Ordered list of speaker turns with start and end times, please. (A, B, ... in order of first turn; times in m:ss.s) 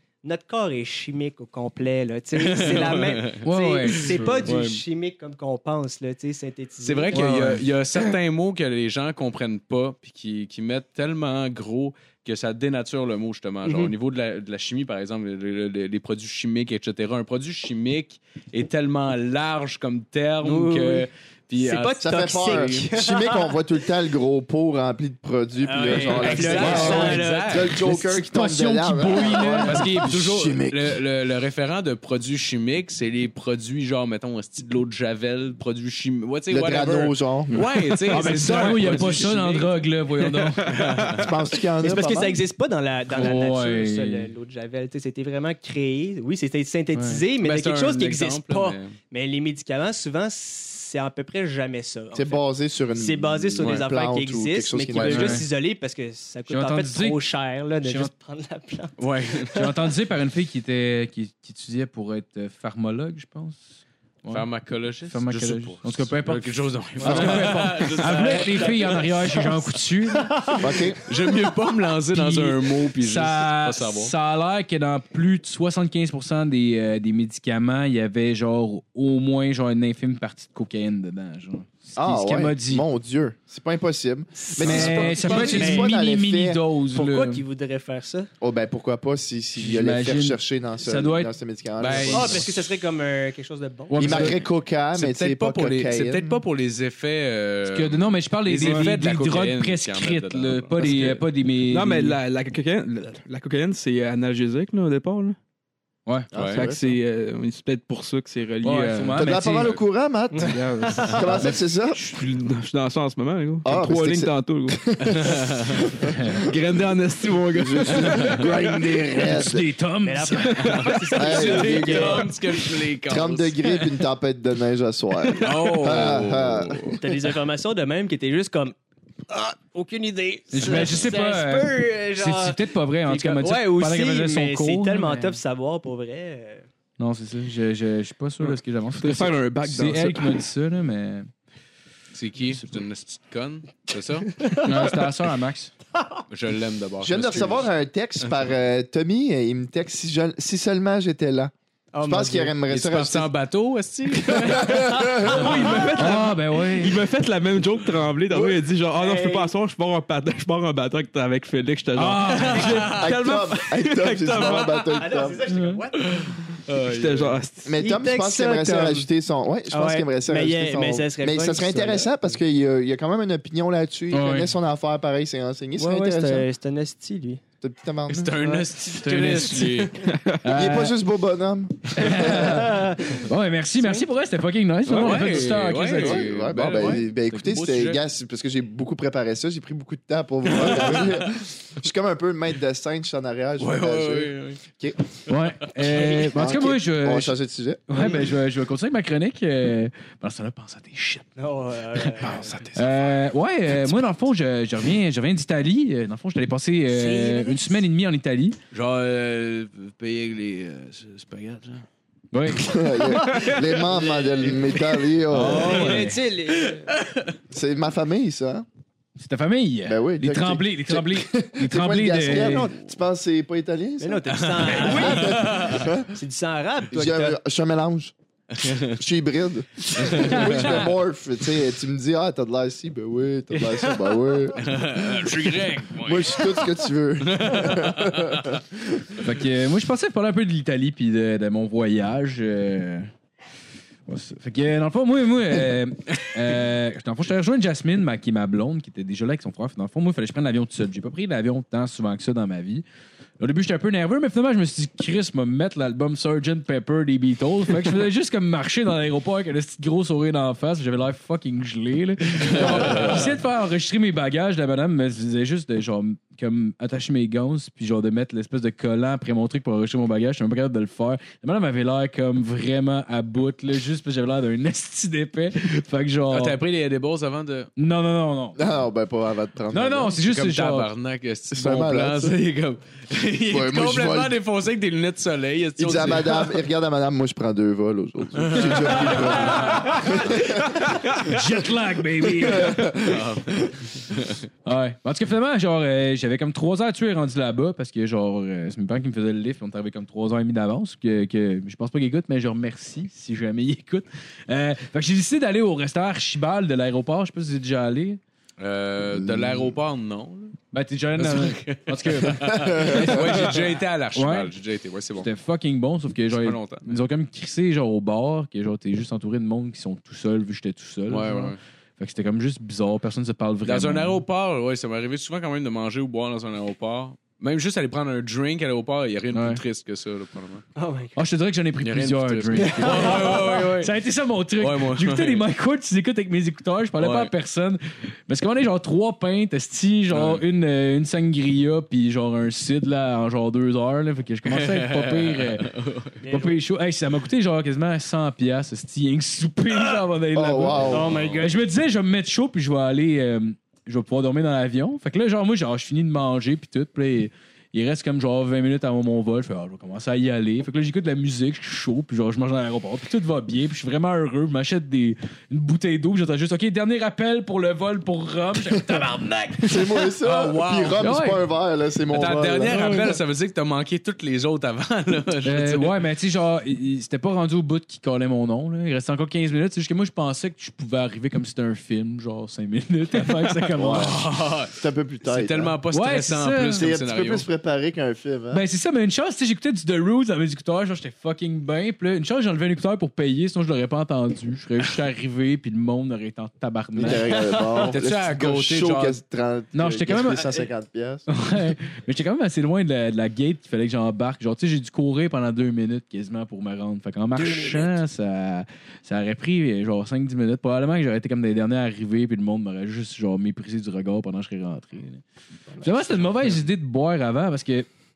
0:00.2-0:07.5 A
0:02.3-0:04.6 B
0:03.4-0:04.8 C
0:06.8-0:22.9 B
0:07.1-0:07.6 C
0:13.6-0:13.9 A
0:20.4-0:21.0 A
0:21.6-0:23.6 A
0:22.0-0:31.0 D
0:25.6-0:27.7 A
0:25.8-0:27.8 B
0:26.5-0:27.2 C
0:27.7-0:30.0 C
0:29.4-0:39.7 B
0:36.5-0:37.6 D
0:37.5-0:37.8 E
0:38.1-0:40.7 C
0:40.6-0:41.1 E
0:40.6-0:41.4 B
0:41.2-0:42.4 D
0:41.8-0:52.4 A
0:43.1-0:44.3 C
0:46.9-0:47.2 C
0:47.4-0:48.9 B
0:52.1-0:55.4 D
0:52.9-0:59.7 A
0:53.6-0:53.8 B
0:54.9-0:55.5 C
0:56.5-0:57.2 C
0:57.8-0:58.1 C
0:59.0-0:59.5 B
0:59.5-1:04.5 C
1:04.3-1:09.0 B
1:05.1-1:10.5 C
1:07.0-1:11.1 A
1:07.0-1:07.5 D
1:10.6-1:11.0 D
1:11.0-1:14.1 B
1:12.1-1:22.8 C
1:22.0-1:26.6 D
1:24.4-1:25.9 A
1:24.6-1:27.4 C
1:26.9-1:28.3 A
1:28.4-1:32.4 D
1:29.6-1:31.3 C
1:31.8-1:32.7 B
1:31.8-1:32.4 C
1:32.1-1:34.3 A
1:33.9-1:34.4 C
1:34.0-1:36.4 D
1:34.9-1:41.2 B
1:37.6-1:42.2 C
1:38.6-1:39.0 E
1:41.7-1:45.4 E
1:46.3-1:47.0 D
1:46.3-1:46.7 B
1:46.5-1:49.3 E
1:48.6-1:49.8 C
1:49.1-1:52.0 D
1:50.3-1:51.3 A
1:50.4-1:58.7 E
1:53.6-1:55.4 D
1:55.1-1:55.8 B
1:56.1-1:56.4 C
1:57.5-1:59.6 D
1:58.0-1:58.4 B
1:59.0-2:01.0 C
2:00.0-2:02.3 A
2:00.6-2:03.8 B
2:01.2-2:02.3 D
2:03.0-2:06.9 D
2:05.4-2:07.1 B
2:07.0-2:08.7 A
2:09.3-2:16.6 A
2:10.5-2:15.4 C
2:17.0-2:21.3 C
2:19.0-2:20.5 E
2:22.1-2:24.4 B
2:24.4-2:24.7 A
2:24.6-2:25.7 C
2:26.3-2:27.7 B
2:27.0-2:31.5 D
2:31.9-2:32.5 A
2:32.0-2:33.3 D
2:32.7-2:35.3 B
2:34.3-2:35.6 D
2:35.1-2:45.0 E
2:35.2-2:36.1 A
2:35.9-2:37.0 C
2:38.3-2:39.5 A
2:41.9-2:43.0 C
2:42.4-2:43.1 B
2:43.0-2:45.4 D
2:44.9-2:46.2 A
2:45.5-2:45.8 C
2:46.0-2:47.4 B
2:46.7-2:47.8 E
2:47.6-2:56.5 D
2:47.8-2:49.1 A
2:49.7-2:52.4 A
2:54.1-2:54.5 C
2:55.8-2:57.4 A
2:57.6-2:58.3 D
2:58.1-3:00.0 B
2:59.0-2:59.9 C
3:00.0-3:00.4 E
3:00.4-3:01.0 C
3:00.5-3:02.8 D
3:01.9-3:07.6 C
3:02.3-3:03.2 A
3:04.9-3:08.0 B
3:05.9-3:15.0 D
3:10.5-3:11.4 B
3:13.6-3:14.6 B
3:15.3-3:17.4 C
3:15.9-3:16.3 A
3:16.1-3:17.8 D
3:17.9-3:21.3 C
3:21.4-3:22.8 A
3:22.0-3:28.6 C
3:26.9-3:27.8 A
3:28.7-3:31.8 B
3:32.3-3:32.7 C
3:32.6-3:36.0 D
3:33.1-3:33.6 E
3:33.2-3:36.9 A
3:35.3-3:36.2 C
3:36.6-3:37.3 B
3:37.5-3:38.6 D
3:39.2-3:42.7 C
3:39.8-3:46.1 D
3:42.3-3:42.7 A
3:44.0-3:47.4 A
3:44.3-3:45.9 B
3:44.8-3:45.4 C
3:46.9-3:48.1 D
3:48.6-3:49.0 B
3:48.6-3:55.2 D
3:50.0-3:50.8 C
3:50.3-3:50.8 B
3:53.5-3:54.4 A
3:54.6-3:56.6 B
3:55.4-3:55.7 C
3:56.0-3:58.8 D
3:57.2-3:58.6 B
3:59.1-4:03.1 C
4:04.1-4:12.8 C
4:13.4-4:36.6 C
4:22.4-4:23.3 B
4:36.3-4:37.7 B
4:37.8-4:38.6 C
4:38.6-4:40.1 D
4:39.7-4:40.9 C
4:40.2-4:46.6 B
4:41.5-4:42.3 D
4:43.5-4:44.4 D
4:45.8-4:50.9 D
4:48.4-4:50.2 B
4:48.9-4:53.0 C
4:52.4-4:53.1 D
4:52.9-4:54.4 B
4:54.6-5:08.2 C
5:08.6-5:10.6 B
5:09.2-5:09.7 D
5:10.7-5:14.5 C
5:11.2-5:15.3 B
5:12.5-5:13.0 D
5:15.2-5:24.2 C
5:16.3-5:17.0 B
5:21.1-5:21.6 B
5:23.6-5:30.6 B
5:29.3-5:29.6 C
5:30.8-5:31.1 A
5:31.2-5:45.7 C
5:31.8-5:33.9 B
5:32.6-5:33.7 A
5:34.6-5:35.4 B
5:37.0-5:37.3 B
5:40.1-5:40.4 B
5:44.4-5:46.2 B
5:46.2-5:46.6 A
5:46.3-6:09.9 C
5:50.3-5:51.1 D
5:50.7-5:51.5 B
5:50.9-5:51.5 A
6:09.6-6:13.2 D
6:10.2-6:11.1 B
6:11.0-6:11.4 C
6:12.1-6:15.9 B
6:12.7-6:13.1 C
6:15.4-6:24.2 C
6:23.8-6:25.8 D
6:23.8-6:27.5 B
6:25.9-6:26.9 C
6:26.7-6:28.6 D
6:28.5-6:37.3 C
6:37.0-6:41.4 D
6:37.7-6:39.2 B
6:39.7-6:40.6 C
6:41.3-6:55.2 C
6:47.4-6:48.0 A
6:55.8-6:57.9 C